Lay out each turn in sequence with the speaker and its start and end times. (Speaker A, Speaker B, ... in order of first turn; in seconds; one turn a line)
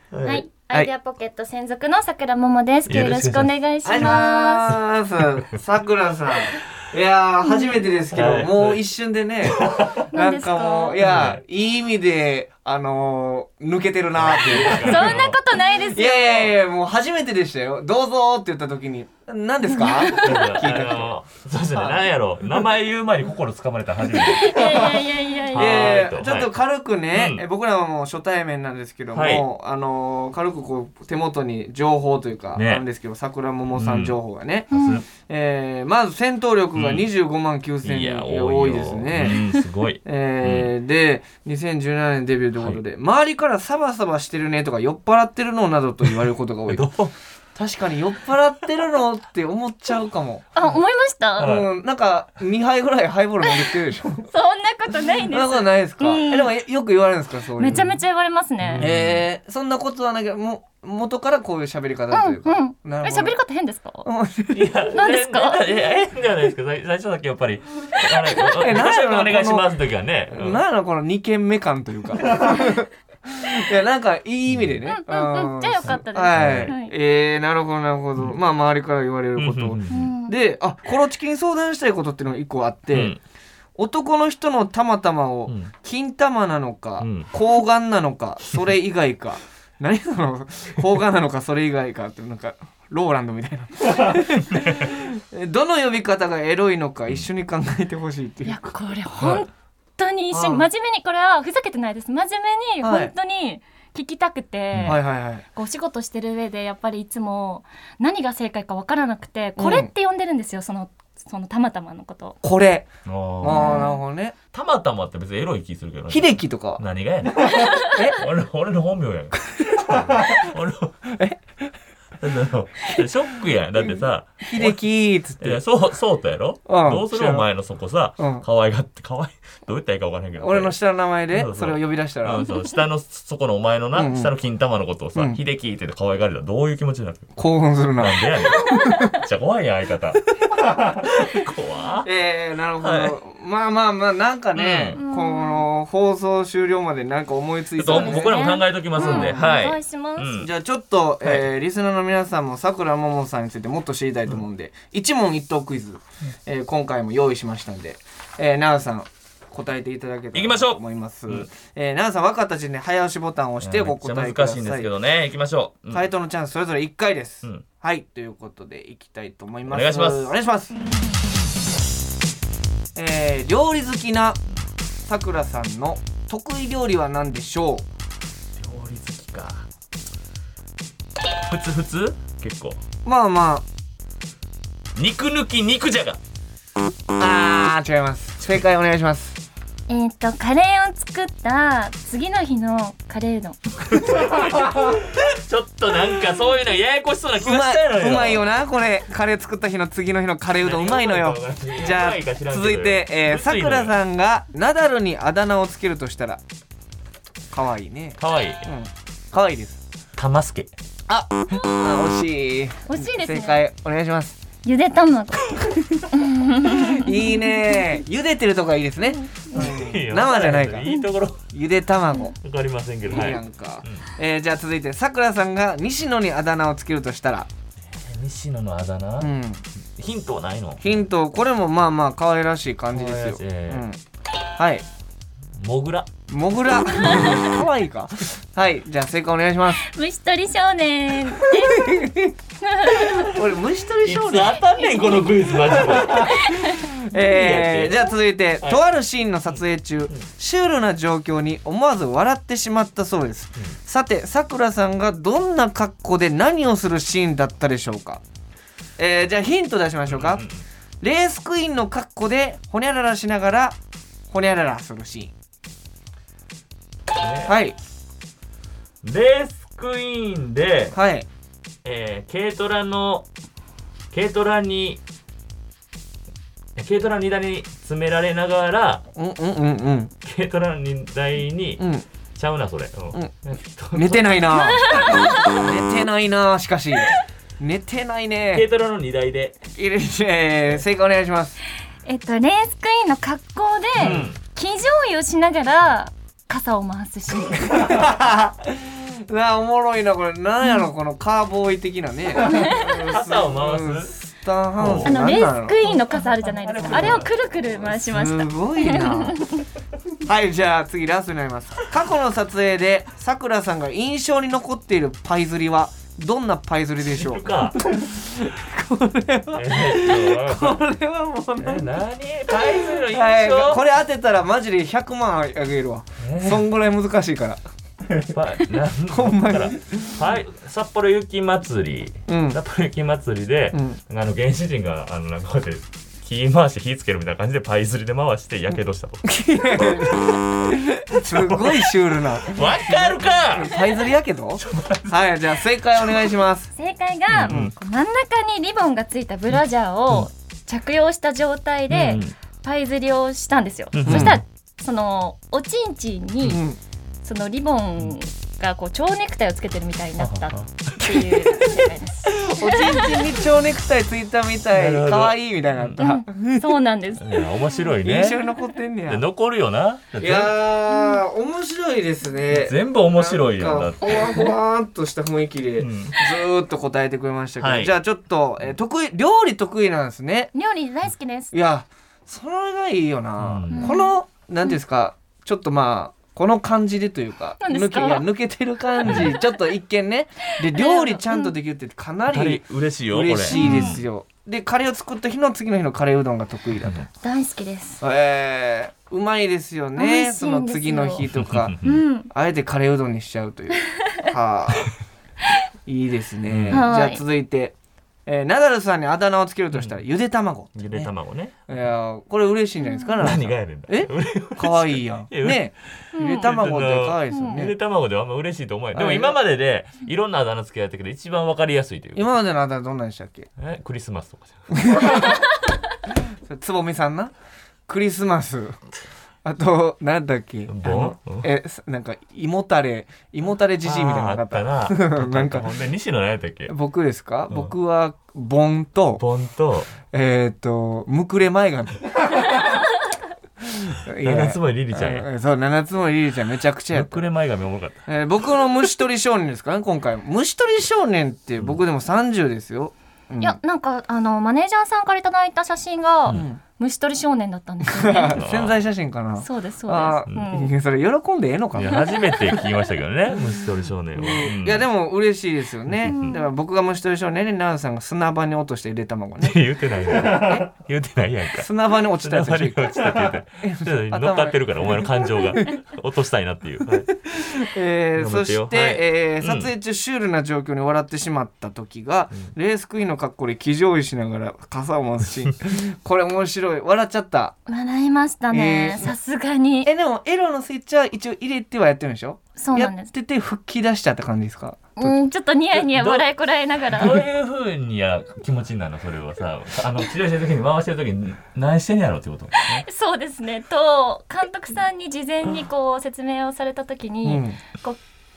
Speaker A: 0.1-0.5
Speaker B: 0.2-4.8
Speaker A: 2.9-4.2
Speaker C: 3.9-15.2
Speaker B: 7.5-7.8
Speaker A: 8.1-8.8
Speaker A: 9.4-10.0
Speaker B: 10.1-11.2
Speaker A: 11.0-11.4
Speaker A: 14.2-15.4
Speaker B: 14.7-16.5
Speaker C: 15.9-21.1
Speaker B: 19.7-20.6
Speaker A: 20.1-26.6
Speaker C: 21.7-22.1
Speaker B: 24.1-26.0
Speaker C: 25.5-39.4
Speaker A: 27.1-27.4
Speaker A: 29.1-29.5
Speaker A: 32.5-32.9
Speaker A: 33.7-34.2
Speaker B: 34.7-35.0
Speaker A: 34.7-35.0
Speaker A: 36.8-37.1
Speaker A: 37.8-40.7
Speaker C: 40.0-46.9
Speaker A: 46.7-47.1
Speaker C: 47.6-50.5
Speaker B: 50.5-51.6
Speaker A: 51.4-51.7
Speaker C: 51.4-54.3
Speaker B: 54.3-56.5
Speaker C: 55.3-57.9
Speaker B: 57.6-58.8
Speaker A: 58.6-59.3
Speaker C: 58.8-63.4
Speaker B: 62.1-64.1
Speaker C: 64.0-64.6
Speaker A: 64.5-70.6
Speaker B: 64.9-65.7
Speaker C: 68.6-69.7
Speaker C: 70.3-83.2
Speaker A: 74.5-74.8
Speaker B: 74.9-76.9
Speaker A: 75.8-76.7
Speaker A: 79.4-80.1
Speaker B: 79.9-80.3
Speaker A: 82.9-83.2
Speaker C: 83.8-99.5
Speaker A: 85.5-85.7
Speaker A: 87.0-87.3
Speaker A: 94.1-94.8
Speaker B: 98.5-105.0
Speaker C: 100.3-100.7
Speaker C: 102.8-103.1
Speaker A: 104.7-105.0
Speaker C: 104.9-105.4
Speaker B: 105.5-112.4
Speaker C: 109.6-109.9
Speaker C: 112.4-112.9
Speaker A: 113.0-113.9
Speaker C: 113.4-114.3
Speaker B: 113.4-114.0
Speaker A: 114.5-121.0
Speaker C: 116.1-116.8
Speaker B: 117.5-117.9
Speaker C: 117.8-118.2
Speaker C: 119.6-120.5
Speaker C: 121.1-121.4
Speaker A: 122.2-124.8
Speaker C: 124.5-125.6
Speaker A: 125.4-130.8
Speaker C: 126.7-127.5
Speaker C: 128.2-128.4
Speaker C: 130.4-132.5
Speaker A: 131.3-137.3
Speaker C: 133.9-134.3
Speaker C: 137.4-139.1
Speaker A: 138.0-140.2
Speaker A: 140.8-142.1
Speaker C: 142.0-149.5
Speaker A: 142.8-143.2
Speaker A: 144.6-145.0
Speaker B: 145.0-145.7
Speaker A: 147.8-150.5
Speaker B: 147.8-150.4
Speaker C: 150.4-164.9
Speaker A: 160.3-161.5
Speaker A: 163.6-166.1
Speaker C: 165.9-170.8
Speaker A: 169.7-170.3
Speaker C: 172.9-174.4
Speaker C: 175.1-177.8
Speaker A: 178.6-179.7
Speaker A: 181.5-182.8
Speaker C: 183.1-183.7
Speaker A: 184.9-186.2
Speaker C: 187.2-189.4
Speaker B: 189.9-193.7
Speaker A: 193.9-198.5
Speaker C: 197.4-206.4
Speaker A: 200.6-204.0
Speaker C: 207.5-209.8
Speaker A: 208.2-208.7
Speaker A: 210.2-210.7
Speaker C: 211.1-214.4
Speaker B: 212.9-213.6
Speaker B: 214.7-217.9
Speaker C: 216.6-220.9
Speaker A: 219.5-221.4
Speaker C: 221.5-222.4
Speaker A: 222.4-224.1
Speaker C: 223.1-227.5
Speaker A: 227.8-231.0
Speaker C: 229.2-229.6
Speaker C: 230.8-234.0
Speaker A: 232.9-233.9
Speaker C: 234.6-234.8
Speaker A: 235.6-236.1
Speaker C: 236.3-239.9
Speaker B: 237.0-237.5
Speaker B: 239.8-243.3
Speaker C: 241.5-242.3
Speaker C: 243.1-244.6
Speaker A: 244.0-248.8
Speaker B: 244.8-246.8
Speaker C: 245.8-258.2
Speaker C: 259.0-260.5
Speaker A: 260.1-260.6
Speaker C: 261.0-263.8
Speaker C: 264.3-265.3
Speaker A: 267.2-267.5
Speaker C: 267.5-267.8
Speaker A: 269.0-271.0
Speaker C: 270.9-271.3
Speaker A: 271.8-273.3
Speaker A: 274.1-275.0
Speaker A: 276.8-279.1
Speaker C: 279.1-280.1
Speaker A: 280.2-281.8
Speaker C: 281.8-282.1
Speaker A: 282.4-285.1
Speaker C: 283.9-288.7
Speaker B: 284.6-285.6
Speaker A: 288.5-289.6
Speaker C: 289.7-291.6
Speaker B: 292.1-297.9
Speaker A: 294.0-294.4
Speaker C: 294.0-294.3
Speaker C: 297.6-305.8
Speaker B: 302.5-303.0
Speaker A: 302.6-304.1
Speaker A: 304.8-305.2
Speaker B: 305.1-309.6
Speaker A: 306.1-308.1
Speaker C: 306.9-307.2
Speaker C: 308.1-309.5
Speaker C: 310.3-321.9
Speaker A: 317.0-317.8
Speaker A: 319.5-320.8
Speaker A: 321.6-323.8
Speaker C: 322.5-327.6
Speaker A: 326.2-326.7
Speaker A: 328.1-340.4
Speaker C: 329.1-330.2
Speaker C: 332.3-332.6
Speaker C: 333.7-334.0
Speaker C: 339.2-346.7
Speaker A: 341.1-343.9
Speaker A: 344.6-345.2
Speaker B: 346.8-356.6
Speaker A: 347.3-347.7
Speaker A: 351.9-352.4
Speaker A: 353.9-354.4
Speaker C: 354.1-354.4
Speaker C: 356.4-356.8
Speaker B: 357.2-363.2
Speaker A: 360.2-361.5
Speaker C: 362.3-366.7
Speaker A: 364.7-366.0
Speaker B: 366.0-367.6
Speaker A: 367.2-368.4
Speaker C: 368.0-369.3
Speaker A: 369.1-370.6
Speaker C: 370.2-380.5
Speaker A: 372.5-374.5
Speaker A: 375.8-376.2
Speaker A: 377.6-377.9
Speaker B: 380.5-381.5
Speaker C: 381.5-397.1
Speaker A: 383.4-384.0
Speaker B: 383.7-384.1
Speaker B: 387.6-388.3
Speaker B: 389.0-389.5
Speaker A: 389.1-389.4
Speaker B: 390.6-391.5
Speaker A: 392.3-394.1
Speaker B: 393.5-394.0
Speaker A: 396.8-397.1
Speaker B: 397.2-398.0
Speaker C: 398.0-401.8
Speaker B: 400.0-401.2
Speaker A: 401.3-402.0
Speaker B: 401.8-402.3
Speaker C: 402.3-404.9
Speaker C: 405.9-407.8
Speaker A: 406.5-406.9
Speaker B: 406.7-407.2
Speaker C: 408.3-411.1
Speaker A: 409.7-410.0
Speaker A: 410.8-411.6
Speaker C: 411.7-417.7
Speaker A: 413.2-422.3
Speaker B: 416.1-416.5
Speaker B: 417.3-417.6
Speaker C: 418.9-419.4
Speaker C: 422.1-423.5
Speaker A: 423.6-425.0
Speaker C: 424.7-425.4
Speaker C: 426.4-427.3
Speaker C: 427.9-428.8
Speaker C: 429.4-435.7
Speaker A: 430.7-431.5
Speaker A: 433.8-436.7
Speaker C: 436.7-439.2
Speaker A: 439.2-439.9
Speaker C: 440.1-442.7
Speaker C: 443.7-447.2
Speaker A: 444.2-445.3
Speaker A: 446.9-448.0
Speaker C: 448.1-453.6
Speaker B: 453.4-458.4
Speaker C: 456.3-456.6
Speaker C: 457.9-462.1
Speaker A: 458.4-458.8
Speaker B: 459.4-460.7
Speaker A: 461.8-464.9
Speaker B: 461.9-462.7
Speaker C: 464.2-469.6
Speaker A: 465.9-466.3
Speaker B: 466.1-466.4
Speaker A: 469.4-477.1
Speaker C: 471.6-475.0
Speaker C: 477.1-487.6
Speaker A: 478.2-479.7
Speaker B: 487.7-489.9
Speaker C: 488.5-489.1
Speaker C: 489.9-495.1
Speaker B: 492.6-493.1
Speaker B: 495.0-497.3
Speaker A: 495.7-496.3
Speaker A: 496.9-502.9
Speaker B: 502.7-508.0
Speaker C: 507.2-507.6